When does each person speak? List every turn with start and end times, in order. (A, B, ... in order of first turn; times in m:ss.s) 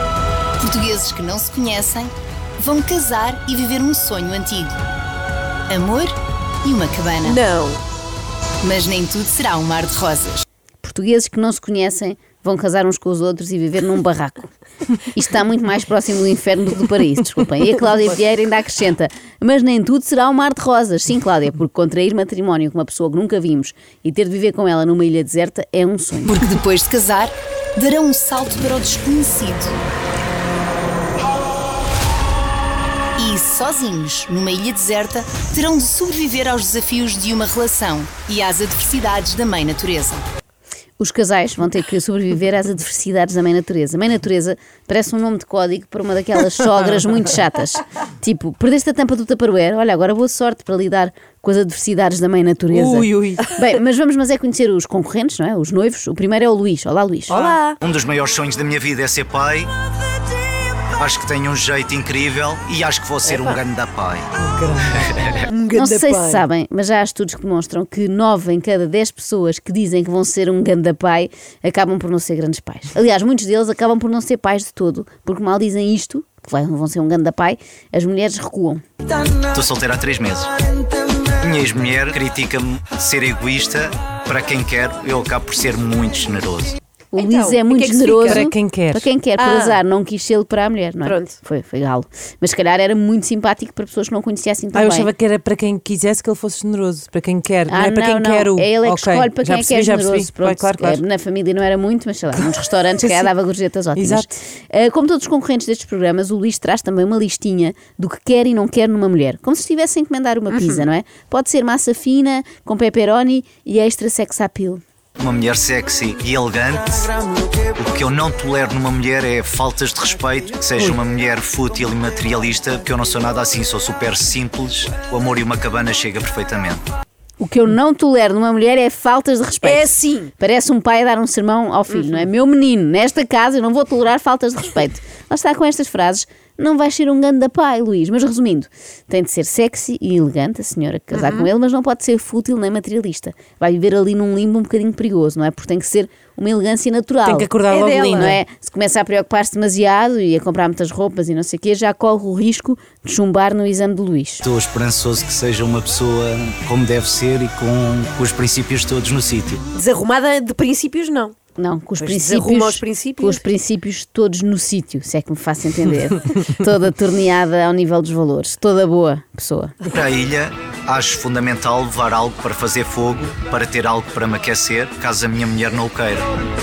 0:00.6-0:04.8 A
0:05.7-0:07.4 A
0:07.2-0:07.8 B
0:08.6-0:10.4 A
0:10.8-0:26.5 C
0:26.3-0:29.8 A
0:33.2-0:40.2 A
0:41.0-0:57.4 C
0:52.7-0:53.4 D
0:57.3-0:57.8 B
0:57.8-0:59.7 E
1:01.0-1:04.3 E
1:03.2-1:03.6 B
1:04.4-1:06.4 B
1:05.7-1:18.8 C
1:19.5-1:20.5 E
1:21.4-1:26.7 E
1:27.1-1:35.1 C
1:27.1-1:28.5 B
1:28.3-1:29.1 D
1:29.4-1:29.8 B
1:31.0-1:31.4 B
1:34.7-1:41.0 D
1:37.7-1:54.8 C
1:42.3-1:43.3 D
1:44.0-1:44.2 D
1:50.5-1:50.8 B
1:55.2-1:57.1 E
1:57.7-2:06.8 E
2:07.4-2:27.5 C
2:09.6-2:10.3 B
2:21.1-2:21.5 B
2:27.2-2:28.4 D
2:27.7-2:28.3 B
2:28.1-2:34.4 C
2:34.4-2:39.6 E
2:39.7-2:41.3 B
2:41.6-2:49.7 C
2:42.0-2:43.4 B
2:49.9-2:56.2 E